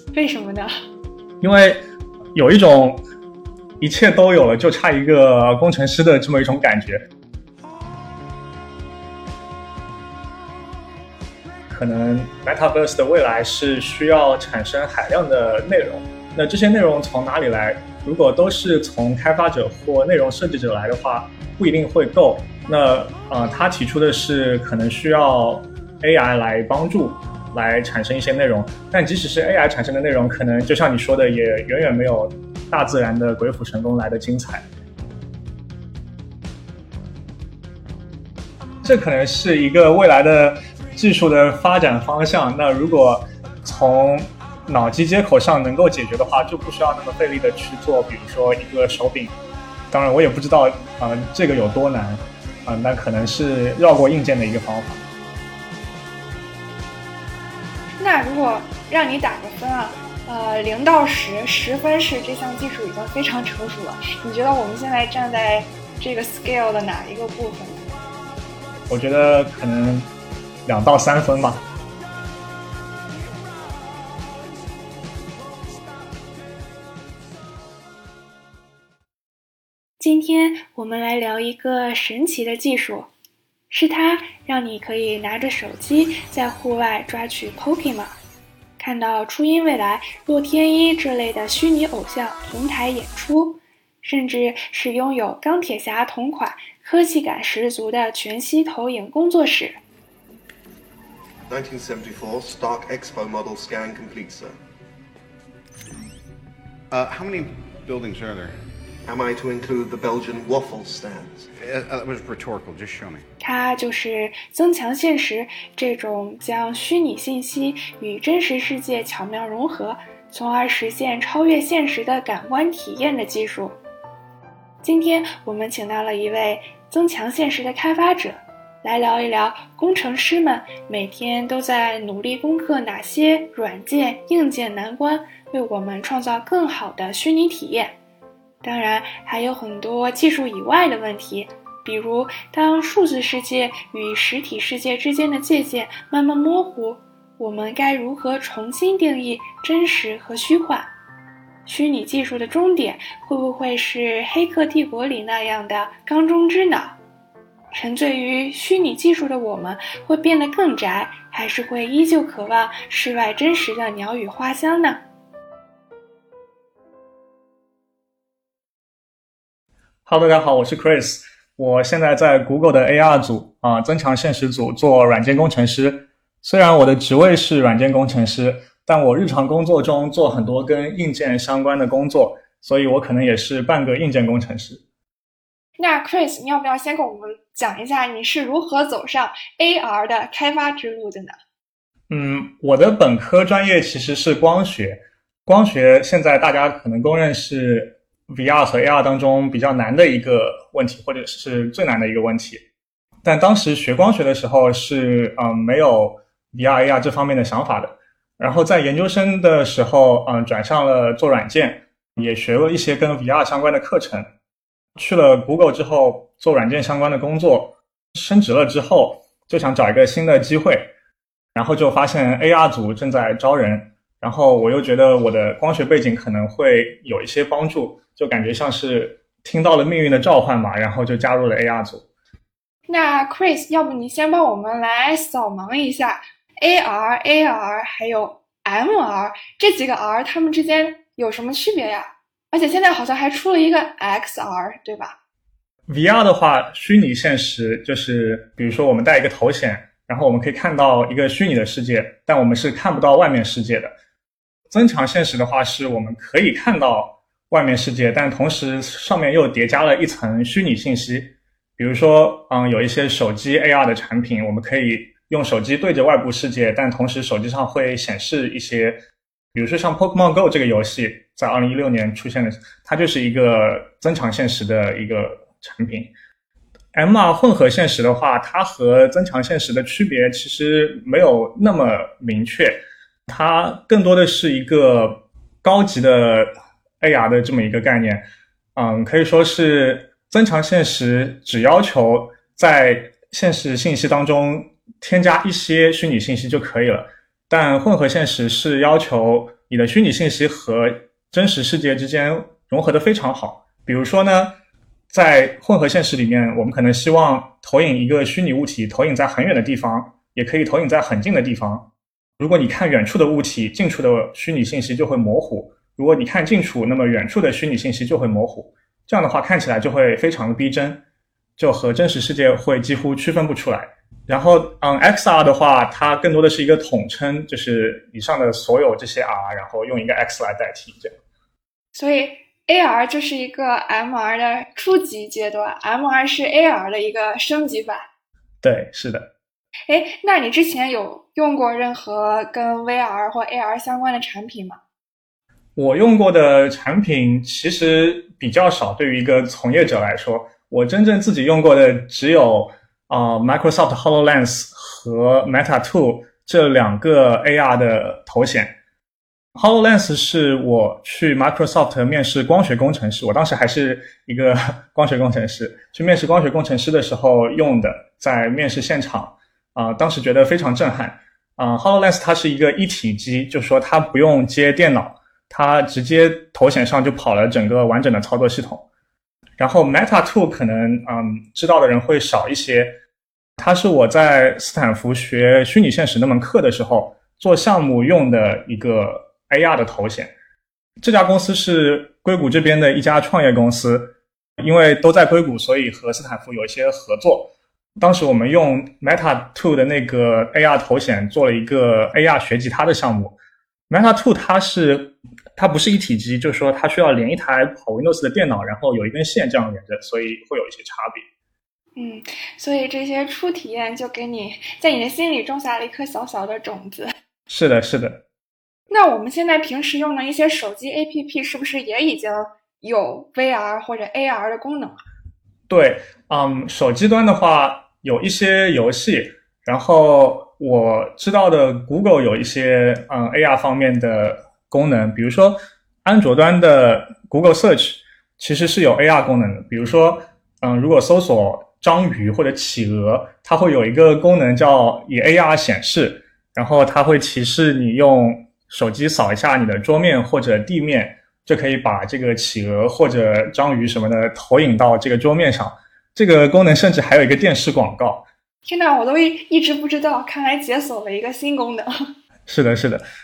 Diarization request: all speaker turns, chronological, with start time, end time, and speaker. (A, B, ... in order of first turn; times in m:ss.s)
0:00.1-0:00.7 A
0:01.4-0:01.8 B
0:02.3-0:03.0 B
0:03.8-0:07.0 B
0:11.7-0:34.6 B
0:38.8-0:49.3 B
0:49.9-0:55.0 B
0:58.0-1:07.9 A
1:08.9-1:10.1 B
1:10.6-1:11.6 B
1:20.0-1:23.1 A
1:23.7-1:28.2 A
1:28.8-1:39.8 A
1:41.5-1:44.5 C
1:46.9-1:48.6 D
1:49.0-1:51.5 C
1:51.6-1:53.2 D
1:53.4-2:03.8 A
2:04.8-2:18.0 A
2:18.6-2:30.9 A
2:31.6-2:37.0 A
2:37.7-2:45.0 A
2:50.0-3:04.8 B
3:05.8-3:11.3 A
3:12.1-3:22.6 B
3:23.2-3:34.3 B
3:35.0-3:40.9 B
3:41.5-3:52.0 B
3:52.9-4:05.2 A
4:05.9-4:13.9 B
4:14.7-4:29.0 B
4:29.5-4:36.1 B
4:36.9-4:46.5 B
4:47.0-4:48.2 B
4:48.8-5:04.5 B
5:05.1-5:11.8 B
5:12.4-5:21.0 B
5:21.6-5:31.1 B
5:31.9-5:38.1 A
5:38.6-5:39.3 B
5:39.9-5:44.8 A
5:45.8-5:58.7 B
5:59.6-6:18.8 B
6:19.6-6:22.9 B
6:23.6-6:30.3 B
6:31.0-6:43.3 B
6:43.9-6:51.2 B
6:52.0-6:57.1 A
6:57.5-6:58.2 B
6:58.9-7:05.0 A
7:05.7-7:38.2 B
7:38.6-7:41.9 A
7:42.5-7:43.0 B